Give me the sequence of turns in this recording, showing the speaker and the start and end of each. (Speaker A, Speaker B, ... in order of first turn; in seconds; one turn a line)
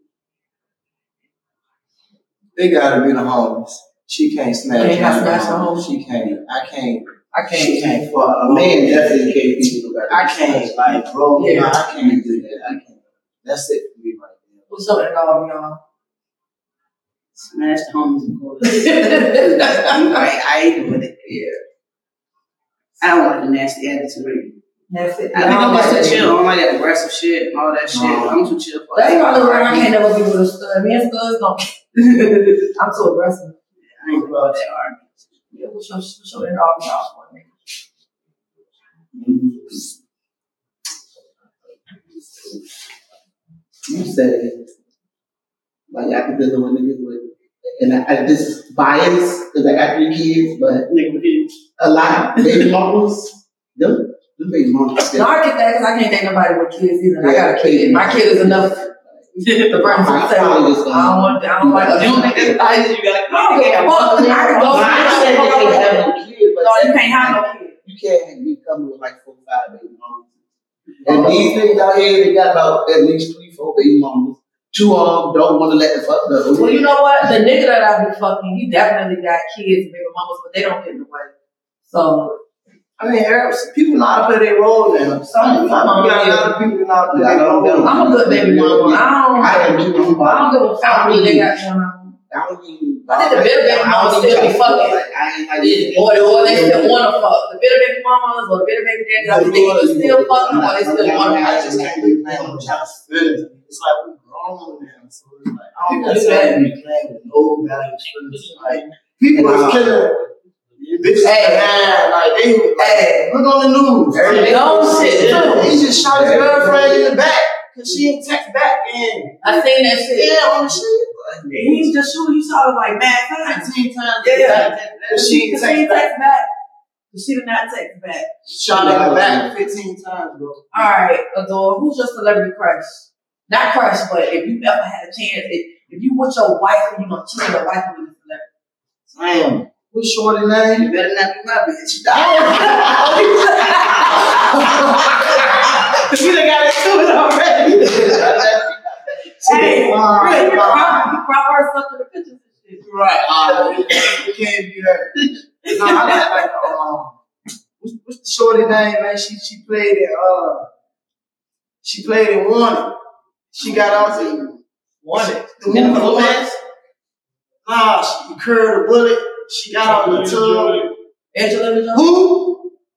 Speaker A: 2.6-9.4
Speaker B: 4.8-5.9
Speaker B: 7.3-8.1
Speaker C: 7.9-11.0
Speaker A: 10.1-14.7
Speaker B: 11.3-11.8
Speaker C: 11.9-12.7
Speaker B: 14.7-15.8
Speaker D: 17.4-21.4
Speaker B: 18.6-20.2
Speaker B: 21.2-21.6
Speaker D: 23.0-24.5
Speaker B: 24.9-26.3
Speaker D: 25.3-29.9
Speaker A: 27.9-28.4
Speaker B: 28.9-32.1
Speaker D: 32.0-32.6
Speaker B: 32.6-33.6
Speaker D: 34.0-35.0
Speaker C: 34.1-34.6
Speaker B: 35.5-37.5
Speaker C: 39.1-39.8
Speaker C: 43.9-44.7
Speaker C: 45.9-50.9
Speaker D: 50.9-51.5
Speaker C: 51.8-55.3
Speaker D: 52.4-52.7
Speaker B: 55.1-58.8
Speaker C: 57.2-59.2
Speaker D: 59.4-59.9
Speaker B: 59.7-62.7
Speaker C: 59.9-62.2
Speaker D: 61.9-65.7
Speaker B: 63.3-66.1
Speaker C: 64.6-70.3
Speaker B: 66.6-67.7
Speaker C: 71.0-76.9
Speaker A: 71.1-71.8
Speaker B: 76.5-81.3
Speaker B: 81.9-82.4
Speaker A: 83.0-88.1
Speaker B: 85.2-86.5
Speaker C: 87.1-91.5
Speaker B: 87.8-92.1
Speaker C: 92.3-97.0
Speaker B: 93.1-95.0
Speaker B: 95.6-102.0
Speaker C: 99.2-102.9
Speaker A: 101.4-110.2
Speaker B: 105.8-106.6
Speaker C: 109.3-109.9
Speaker C: 110.8-111.1
Speaker A: 111.0-119.4
Speaker B: 111.2-111.8
Speaker B: 112.8-113.3
Speaker C: 114.1-117.0
Speaker B: 114.2-115.7
Speaker B: 119.4-120.3
Speaker C: 120.1-121.7
Speaker B: 121.5-126.5
Speaker A: 123.5-126.1
Speaker C: 124.5-125.1
Speaker B: 127.1-128.3
Speaker A: 128.5-130.9
Speaker C: 128.6-129.5
Speaker B: 130.7-138.4
Speaker A: 139.1-140.9
Speaker D: 140.8-143.1
Speaker C: 142.1-144.3
Speaker B: 142.3-145.7
Speaker D: 143.9-144.4
Speaker D: 144.9-148.5
Speaker C: 147.6-150.4
Speaker A: 149.4-151.1
Speaker B: 149.4-152.8
Speaker A: 152.8-157.2
Speaker D: 155.8-156.1
Speaker B: 155.8-156.1
Speaker A: 157.8-160.7
Speaker A: 161.8-162.9
Speaker A: 163.5-164.4
Speaker D: 163.7-164.3
Speaker B: 165.0-165.4
Speaker A: 165.1-166.4
Speaker C: 165.6-166.4
Speaker D: 165.7-166.5
Speaker A: 167.6-170.9
Speaker B: 171.3-172.1
Speaker C: 171.9-172.6